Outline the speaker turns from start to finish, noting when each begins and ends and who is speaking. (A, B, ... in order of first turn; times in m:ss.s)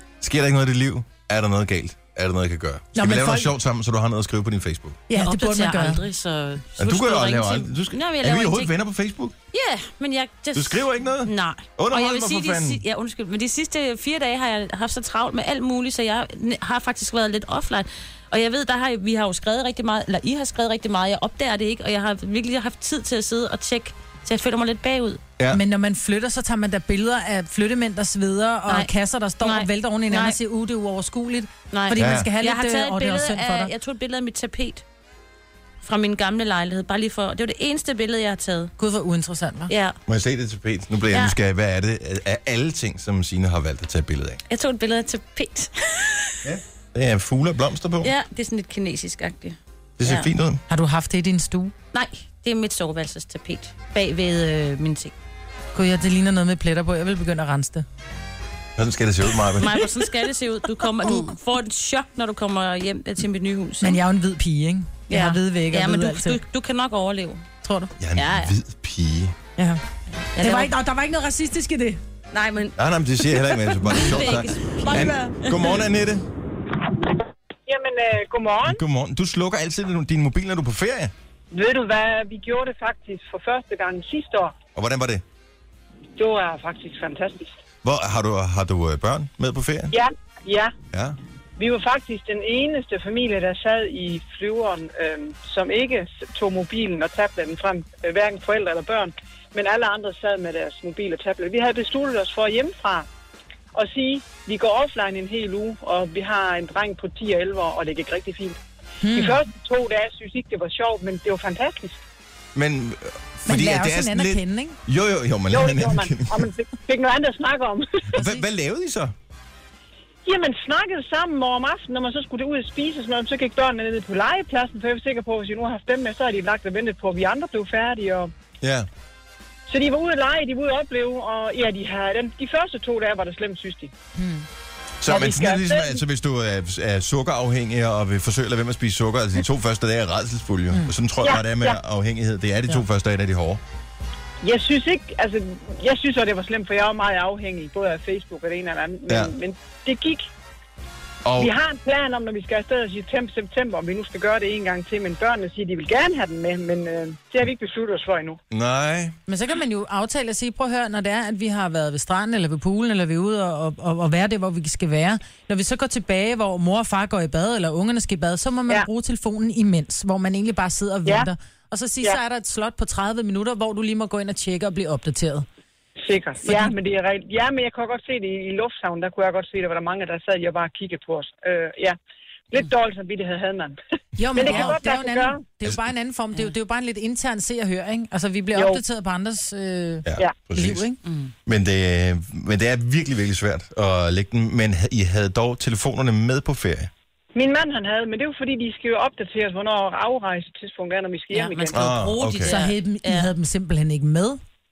0:00.2-0:05.0 A
0:02.9-0:03.5 B
0:05.1-0:06.0 B
0:05.1-0:08.7 C
0:06.8-0:09.3 A
0:09.5-0:25.2 C
0:10.5-0:12.8 A
0:25.5-0:33.7 B
0:29.4-0:30.4 C
0:31.7-0:34.8 C
0:32.0-0:32.3 A
0:35.8-0:38.7 C
0:38.8-0:39.7 B
0:39.7-0:40.0 C
0:40.1-0:44.4 A
0:44.5-0:46.4 C
0:46.4-0:48.1 A
0:48.0-0:50.3 C
0:50.0-0:50.6 A
0:50.7-0:51.7 B
0:51.9-0:55.1 C
0:55.7-0:57.8 B
0:58.8-0:59.9 A
0:59.6-1:04.0 C
1:03.8-1:06.4 B
1:05.1-1:07.4 C
1:07.6-1:07.9 B
1:08.0-1:09.3 A
1:08.2-1:08.5 C
1:10.2-1:10.7 C
1:10.4-1:12.0 B
1:12.3-1:12.8 C
1:12.8-1:16.2 A
1:13.3-1:15.8 C
1:17.7-1:18.8 D
1:18.6-1:21.1 A
1:21.5-1:24.5 D
1:24.8-1:25.2 A
1:26.2-1:27.5 D
1:27.8-1:29.9 A
1:29.9-1:30.7 D
1:30.9-1:31.2 A
1:31.6-1:43.1 D
1:43.7-1:48.6 D
1:49.0-1:49.4 B
1:49.1-1:52.0 D
1:52.5-1:56.5 A
1:53.4-1:54.8 B
1:55.5-1:58.3 D
1:58.1-1:59.1 A
2:00.2-2:08.3 D
2:08.6-2:08.9 A
2:09.7-2:13.9 D
2:14.2-2:14.4 B
2:15.0-2:23.6 A
2:15.1-2:16.0 D
2:21.2-2:21.8 D
2:24.4-2:30.3 D
2:31.2-2:31.5 A
2:31.4-2:38.4 D
2:38.5-2:39.2 A
2:39.3-2:55.4 B
2:56.0-3:02.0 D
2:56.4-2:56.7 B
3:02.5-3:03.8 D
3:04.2-3:11.0 B
3:04.3-3:05.4 D
3:08.5-3:08.8 D
3:10.0-3:10.8 A
3:11.0-3:11.3 C
3:11.4-3:16.9 A
3:17.3-3:21.9 D
3:21.3-3:23.3 C
3:21.7-3:22.6 A
3:22.5-3:24.4 B